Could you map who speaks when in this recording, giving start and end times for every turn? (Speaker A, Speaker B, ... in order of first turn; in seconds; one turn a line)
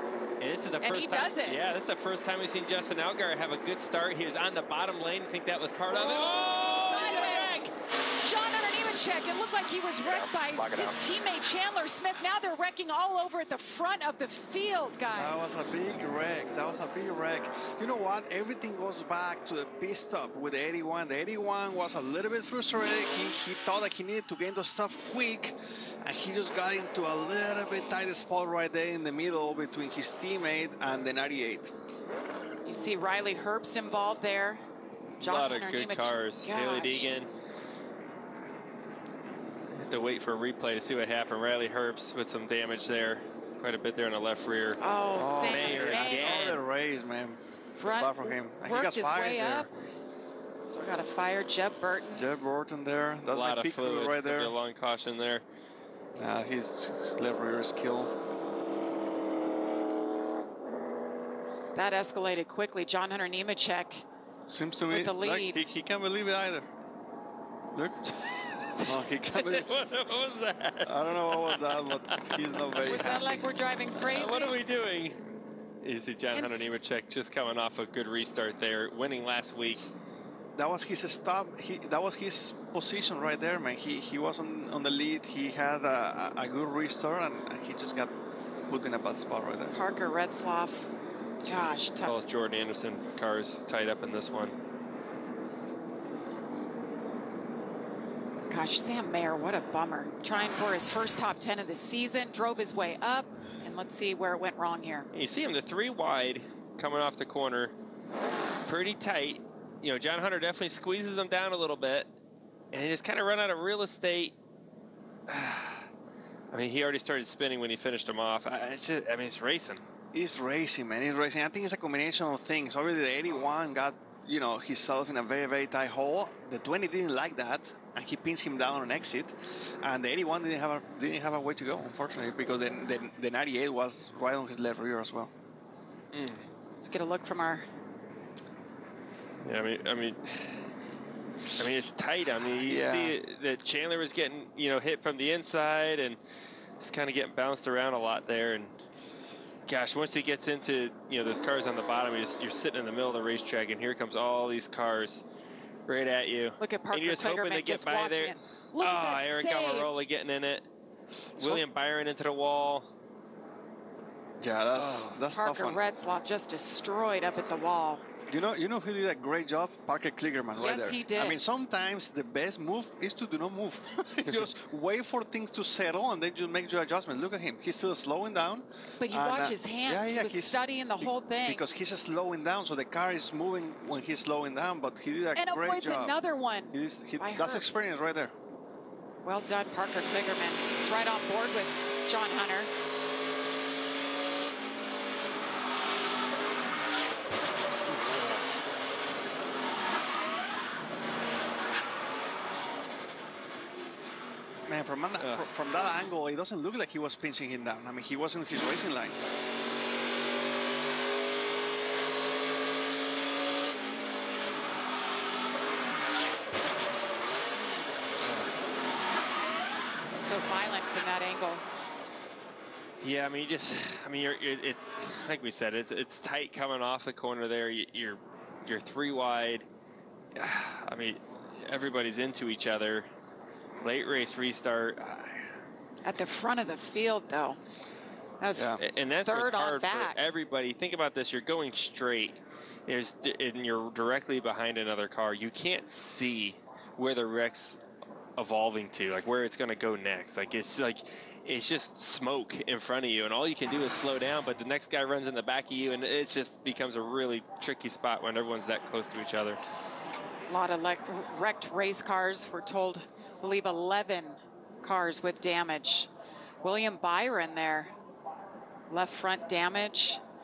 Speaker A: 0.4-7.7
Speaker B: 0.8-1.6
Speaker B: 6.4-7.7
Speaker B: 8.2-15.6
Speaker C: 15.1-31.7
Speaker B: 32.6-34.6
Speaker B: 35.2-37.1
Speaker A: 35.2-37.3
Speaker A: 39.7-44.8
Speaker B: 44.8-46.4
Speaker C: 45.1-49.7
Speaker A: 45.5-46.6
Speaker B: 47.8-49.7
Speaker B: 50.6-52.3
Speaker C: 52.1-54.5
Speaker A: 53.3-55.4
Speaker C: 56.1-58.1
Speaker B: 61.7-64.0
Speaker C: 64.5-66.7
Speaker B: 64.9-65.6
Speaker C: 67.7-68.0
Speaker A: 68.6-73.0
Speaker C: 68.8-69.7
Speaker C: 70.8-73.5
Speaker B: 72.8-74.6
Speaker A: 74.0-75.2
Speaker A: 75.8-79.9
Speaker B: 76.3-76.8
Speaker C: 80.5-88.1
Speaker C: 88.7-89.8
Speaker B: 89.7-90.8
Speaker A: 91.4-94.5
Speaker B: 91.5-92.1
Speaker B: 98.5-105.1
Speaker A: 105.1-107.7
Speaker A: 108.7-112.1
Speaker A: 112.7-114.3
Speaker A: 115.3-115.9
Speaker A: 116.5-119.8
Speaker C: 120.1-135.3
Speaker A: 136.1-136.4
Speaker B: 136.8-137.7
Speaker A: 139.4-140.6
Speaker A: 141.6-146.2
Speaker C: 142.4-143.2
Speaker A: 146.8-148.7
Speaker A: 149.7-155.2
Speaker A: 155.9-160.7
Speaker B: 156.6-159.9
Speaker C: 161.3-161.6
Speaker A: 161.4-162.9
Speaker C: 164.4-165.8
Speaker A: 164.7-165.2
Speaker B: 165.3-168.0
Speaker C: 168.3-186.2
Speaker B: 170.5-171.4
Speaker B: 179.0-181.6
Speaker B: 185.3-187.8
Speaker C: 186.7-188.3
Speaker B: 189.2-192.7
Speaker A: 197.9-198.4
Speaker C: 204.7-209.2
Speaker A: 205.2-205.5
Speaker B: 217.5-217.9
Speaker A: 218.2-218.5
Speaker B: 220.2-221.6
Speaker A: 223.0-229.7
Speaker A: 230.3-233.1
Speaker A: 233.8-235.5
Speaker B: 236.0-237.6
Speaker B: 238.4-240.2
Speaker C: 238.5-238.8
Speaker A: 238.8-247.8
Speaker A: 248.4-259.6
Speaker B: 260.5-266.1
Speaker B: 266.6-267.9
Speaker B: 268.9-270.2